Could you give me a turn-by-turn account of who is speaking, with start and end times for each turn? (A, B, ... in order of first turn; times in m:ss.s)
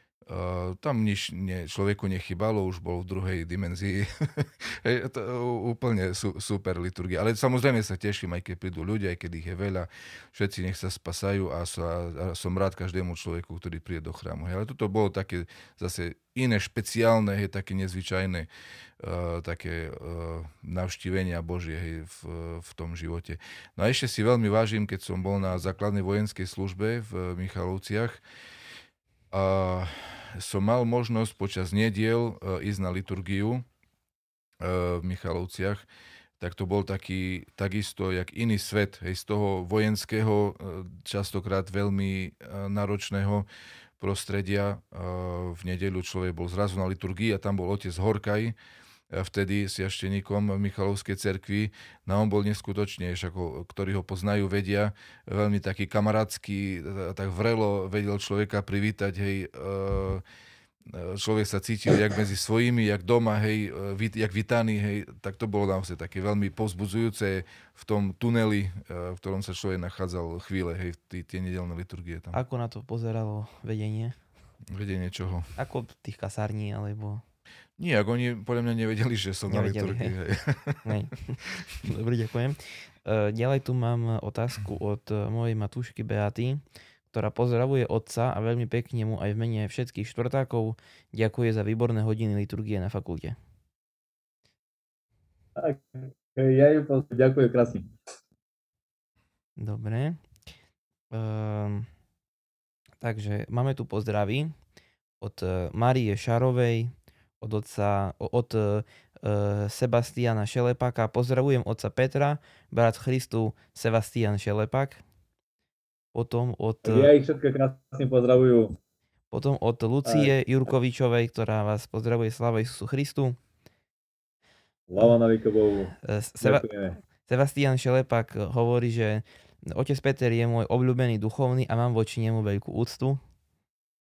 0:00.3-0:18.5 A
0:19.0-0:28.2 A
0:29.3-0:33.6 A
0:34.6-0:35.8 A
0:36.4-0:43.4 A
0:44.0-0:48.5 A
0:49.1-1:00.2 A
1:00.9-1:12.4 A
1:12.3-1:14.2 B
1:14.7-1:15.5 A
1:15.6-1:17.2 B
1:17.8-1:20.9 A
1:19.5-1:20.1 B
1:20.8-1:33.4 B
1:35.6-1:37.9 C
1:39.6-1:40.2 B
1:41.1-1:41.9 B
1:43.0-1:44.5 B
1:45.2-1:55.0 B
1:56.1-1:57.1 B
1:56.8-1:58.8 C
1:59.3-2:03.4 B
2:00.0-2:00.3 C
2:04.9-2:07.0 C
2:06.0-2:06.6 B
2:07.2-2:13.2 B